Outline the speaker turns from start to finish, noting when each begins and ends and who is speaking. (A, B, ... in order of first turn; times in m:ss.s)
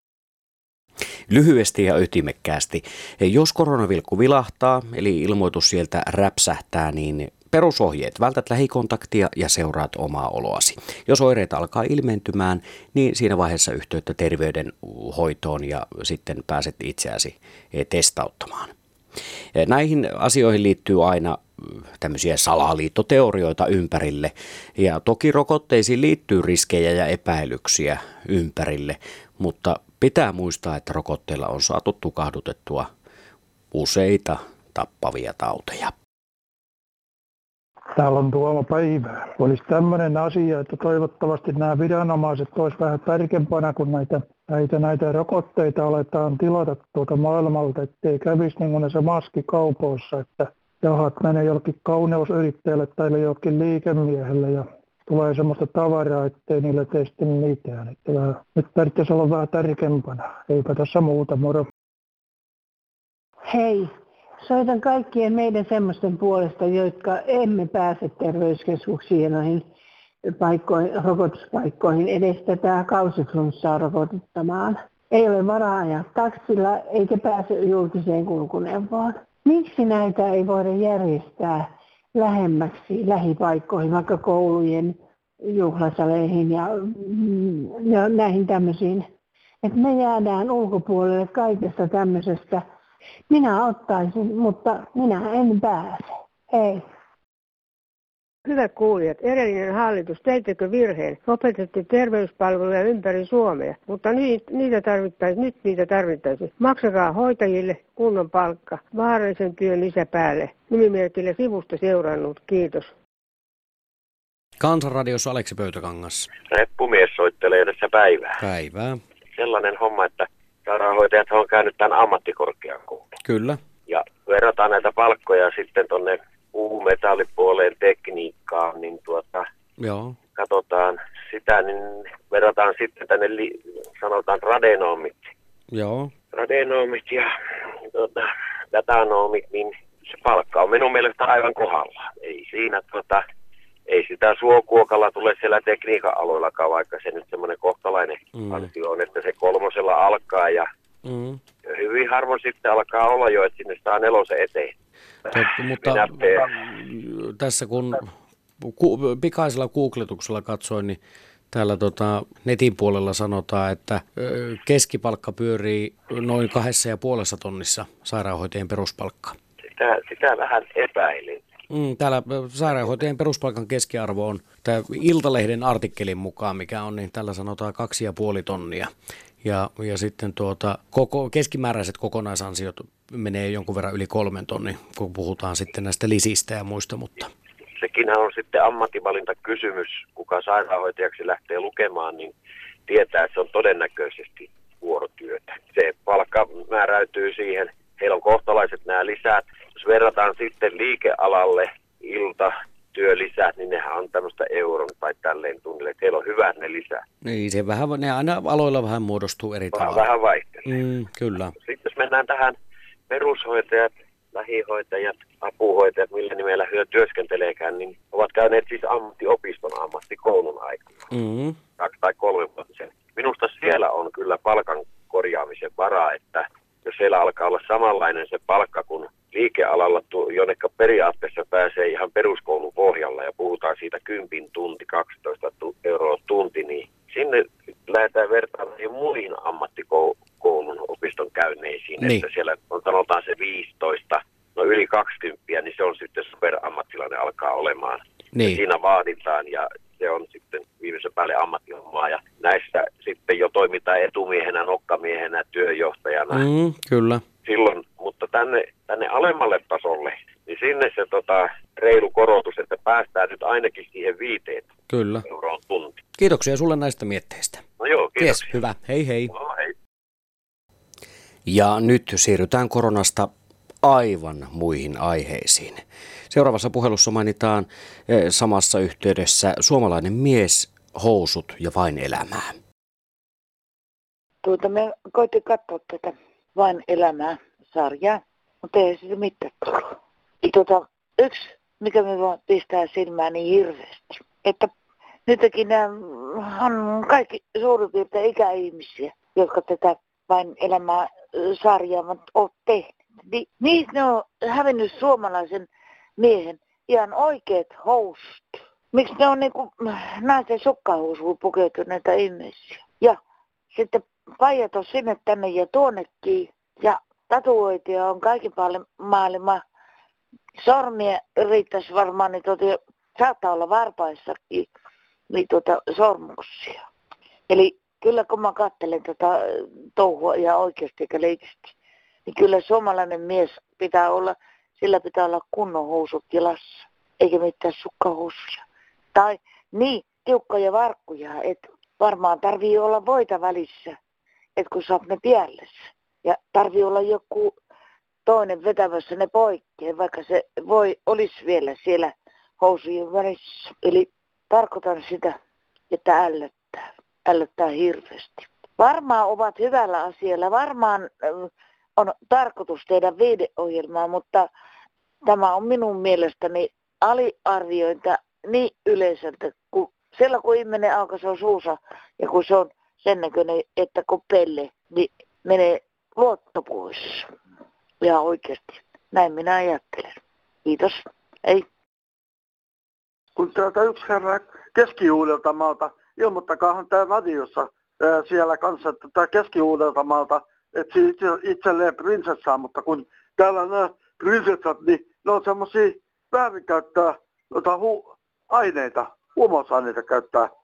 0:01.3-0:18.7 A
0:19.5-0:32.9 A
0:33.7-0:35.9 A
0:37.9-1:01.7 B
1:03.4-1:03.9 C
1:04.4-1:09.6 C
1:10.4-1:29.1 C
1:29.6-1:32.6 C
1:33.3-1:36.8 C
1:38.4-1:52.9 D
1:54.6-1:56.3 A
1:56.5-1:58.4 E
1:58.4-1:59.0 A
1:59.3-2:03.0 E
2:03.2-2:03.6 A
2:03.9-2:09.4 E
2:09.8-2:10.2 A
2:10.4-2:15.3 E
2:15.7-2:16.1 A
2:16.3-2:17.3 E
2:17.9-2:23.2 E
2:23.9-2:30.7 E
2:28.4-2:28.7 A
2:31.0-2:31.4 A
2:31.6-2:34.7 E
2:35.3-2:36.5 E
2:35.3-2:38.1 A
2:38.6-2:41.0 A
2:41.5-2:49.4 A
2:49.7-2:51.4 E
2:51.7-2:58.9 A
2:59.4-3:07.3 A
3:07.8-3:12.3 E
3:12.9-3:27.0 E
3:27.2-3:30.0 A
3:29.7-3:30.6 E
3:30.6-3:31.5 A
3:31.6-3:32.5 E
3:33.1-3:41.0 E
3:41.1-3:41.6 A
3:41.8-4:16.4 E
4:02.0-4:02.2 A
4:08.3-4:08.6 A
4:16.3-4:17.2 A
4:17.4-4:24.7 E
4:24.9-4:25.2 A
4:25.3-4:26.0 E
4:26.2-4:27.6 A
4:27.8-4:28.5 E
4:28.2-4:29.3 A
4:29.3-4:29.7 E
4:31.4-4:33.3 A
4:33.8-4:42.6 A
4:44.4-4:54.7 F
4:55.2-5:05.7 F
5:06.2-5:13.2 F
5:13.7-5:19.6 F
5:20.6-5:24.7 F
5:25.3-5:26.8 F
5:27.5-5:31.7 F
5:32.3-5:44.0 F
5:44.6-5:47.5 F
5:48.2-5:55.4 F
5:55.9-6:04.5 F
6:05.2-6:17.3 F
6:18.0-6:21.6 F
6:23.4-6:27.2 G
6:28.3-6:30.2 G
6:31.3-6:37.1 G
6:39.4-6:40.4 G